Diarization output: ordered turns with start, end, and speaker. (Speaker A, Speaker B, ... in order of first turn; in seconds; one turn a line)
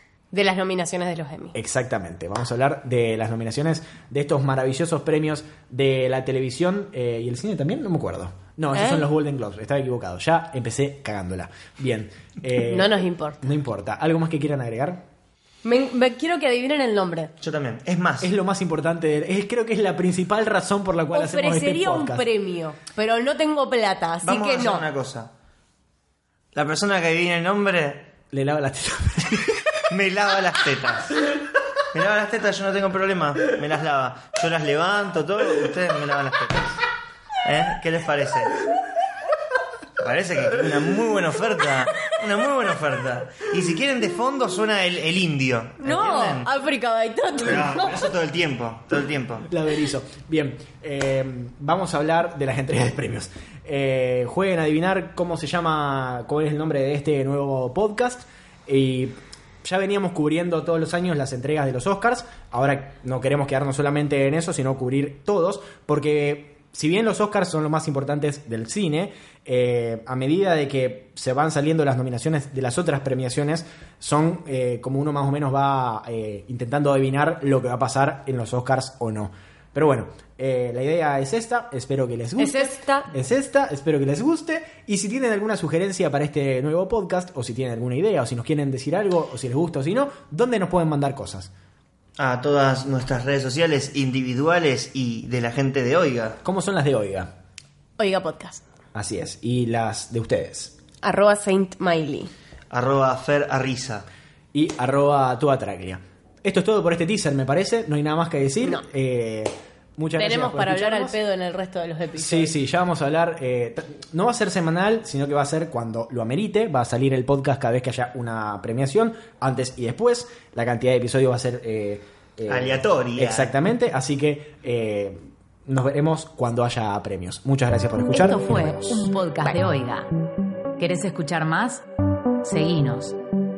Speaker A: 0.3-1.6
Speaker B: 1.6-15.0
Speaker A: 8.7-9.1
Speaker A: 12.6-13.4
Speaker A: 15.6-17.3
Speaker C: 17.4-18.3
Speaker B: 18.2-22.3
Speaker A: 21.1-24.9
Speaker C: 24.2-25.3
Speaker C: 26.6-28.1
Speaker B: 28.3-29.6
Speaker C: 29.9-31.2
Speaker C: 31.9-36.7
Speaker C: 37.5-38.5
Speaker C: 40.0-46.5
Speaker A: 45.8-48.1
Speaker C: 47.4-49.5
Speaker B: 49.5-91.5
Speaker A: 82.4-83.1
Speaker C: 92.2-96.4
Speaker B: 96.4-97.3
Speaker A: 98.0-98.6
Speaker B: 98.9-100.8
Speaker A: 101.0-102.3
Speaker C: 102.7-104.1
Speaker B: 104.5-111.2
Speaker A: 110.2-112.5
Speaker B: 112.2-129.1
Speaker C: 122.5-123.5
Speaker D: 128.2-130.1
Speaker D: 130.8-131.8
Speaker D: 132.4-133.2